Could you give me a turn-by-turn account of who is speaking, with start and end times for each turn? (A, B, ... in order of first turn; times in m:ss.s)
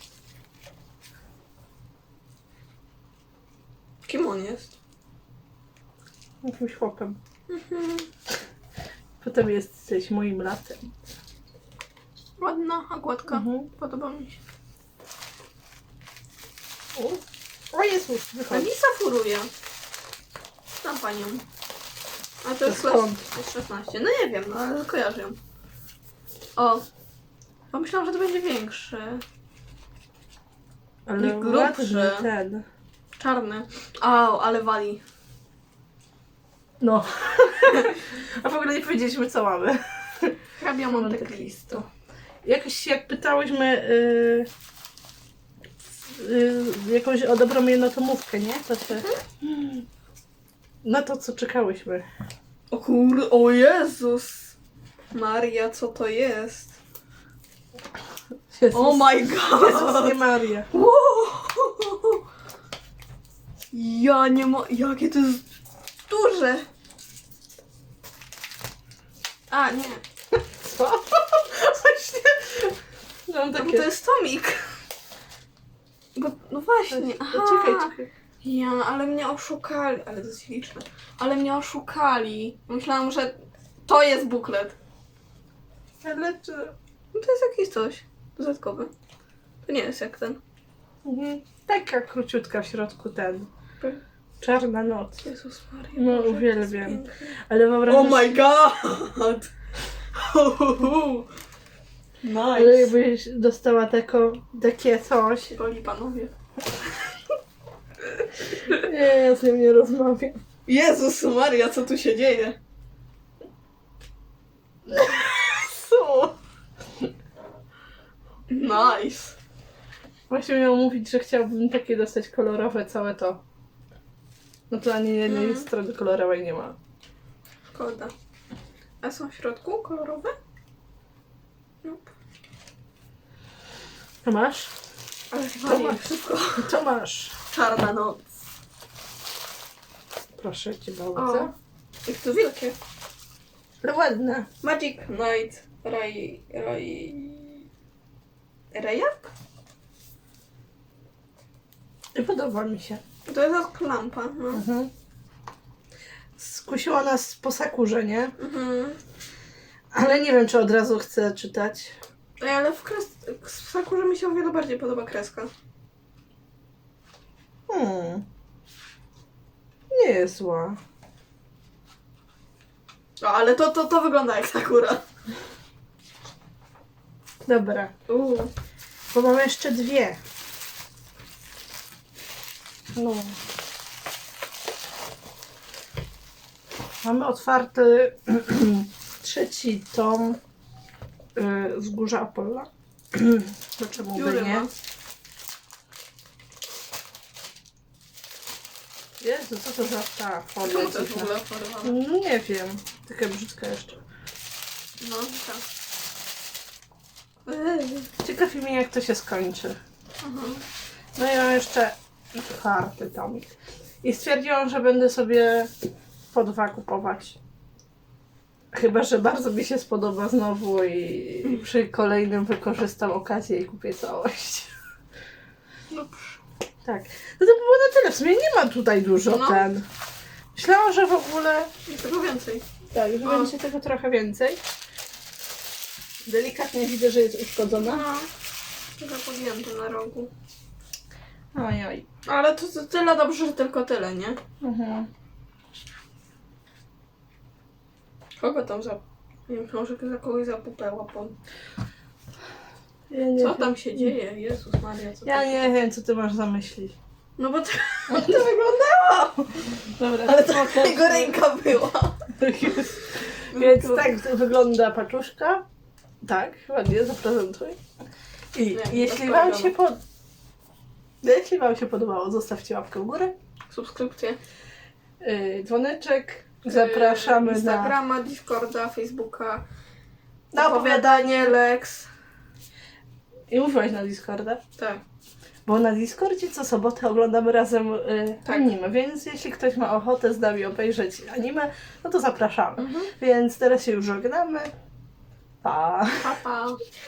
0:04.0-0:04.7 A
0:06.4-0:07.2 B
0:07.5-0:08.1 A
0:09.2-0:10.9 B
0:12.4-0:14.4 A
0:13.3-0:13.7 B
0:16.9-0:17.2 B
0:17.7-0:18.7 B
0:18.5-0:19.5 A
0:20.8-0:21.4 A
0:22.4-0:25.4 A
0:22.6-0:23.2 B
0:26.6-0:26.8 A
0:27.7-0:29.2 A
0:31.1-0:32.6 B
0:31.2-0:32.3 A
0:33.2-0:35.0 A
0:36.8-0:40.4 B
0:40.6-0:41.8 A
0:40.9-0:41.8 B
0:42.4-0:44.5 B
0:46.1-0:49.8 B
0:50.8-0:52.1 B
0:52.7-0:54.6 A
0:55.1-0:56.8 A
0:58.5-1:00.7 B
0:58.7-1:02.2 A
1:03.7-1:05.4 A
1:06.1-1:06.6 A
1:09.5-1:10.0 A
1:10.6-1:11.3 B
1:11.4-1:12.7 A
1:13.3-1:13.9 B
1:13.6-1:14.6 A
1:16.1-1:24.7 A
1:16.9-1:18.1 B
1:26.0-1:26.7 B
1:27.1-1:28.9 A
1:29.6-1:30.4 A
1:31.0-1:33.5 B
1:34.4-1:35.2 B
1:35.2-1:37.3 A
1:35.9-1:38.4 B
1:37.8-1:39.5 A
1:40.1-1:41.3 A
1:42.2-1:42.9 A
1:42.5-1:45.5 B
1:45.5-1:46.3 A
1:48.7-1:50.4 B
1:50.7-1:52.6 A
1:54.9-1:56.3 B
1:58.5-1:59.4 A
2:00.3-2:03.4 B
2:04.7-2:06.8 B
2:05.2-2:05.7 A
2:07.7-2:08.1 A
2:09.0-2:10.3 A
2:11.8-2:12.1 A
2:14.2-2:14.7 B
2:15.3-2:16.7 A
2:15.6-2:16.0 B
2:16.6-2:17.4 B
2:17.5-2:18.3 A
2:20.4-2:21.5 B
2:21.1-2:21.5 A
2:22.0-2:22.8 A
2:23.8-2:24.5 B
2:24.6-2:27.6 A
2:28.7-2:29.3 A
2:32.1-2:33.0 B
2:33.2-2:34.6 A
2:34.5-2:34.9 B
2:36.4-2:38.3 B
2:38.4-2:39.0 A
2:39.9-2:42.0 B
2:42.4-2:45.5 A
2:47.7-2:48.2 B
2:49.9-2:50.8 B
2:53.2-2:55.0 A
2:57.4-2:57.9 B
2:58.1-2:58.5 A
2:59.1-3:00.2 B
3:02.9-3:03.4 B
3:07.0-3:10.4 B
3:11.4-3:14.7 B
3:14.1-3:14.7 A
3:19.2-3:24.0 B
3:20.6-3:22.0 A
3:25.0-3:25.6 A
3:27.4-3:28.1 A
3:28.2-3:29.8 B
3:30.2-3:30.6 A
3:31.2-3:33.5 B
3:34.0-3:35.7 B
3:36.3-3:37.4 B
3:38.7-3:44.7 B
3:45.9-3:46.4 A
3:46.8-3:49.8 B
3:49.2-3:49.7 A
3:50.5-3:51.7 B
3:51.9-3:52.6 A
3:52.9-3:54.6 B
3:53.2-3:53.5 A
3:56.2-3:58.0 B
3:57.8-3:58.3 A
3:59.0-4:00.3 A
4:01.5-4:02.0 B
4:02.2-4:04.4 A
4:04.6-4:05.1 B
4:08.4-4:11.4 A
4:13.1-4:14.1 B
4:13.4-4:15.7 A
4:15.2-4:17.0 B
4:17.4-4:19.3 A
4:18.1-4:21.3 B
4:20.2-4:22.2 A
4:22.4-4:25.6 B
4:23.5-4:24.1 A
4:26.2-4:27.8 B
4:28.5-4:30.0 B
4:28.7-4:29.7 A
4:31.2-4:33.3 B
4:33.7-4:34.4 A
4:35.2-4:38.0 B
4:36.6-4:39.6 A
4:40.5-4:41.5 B
4:40.5-4:42.1 A
4:43.5-4:44.6 B
4:44.8-4:45.0 A
4:45.6-4:54.7 B
4:52.8-4:53.1 A
4:55.6-4:56.3 B
4:56.2-4:56.8 A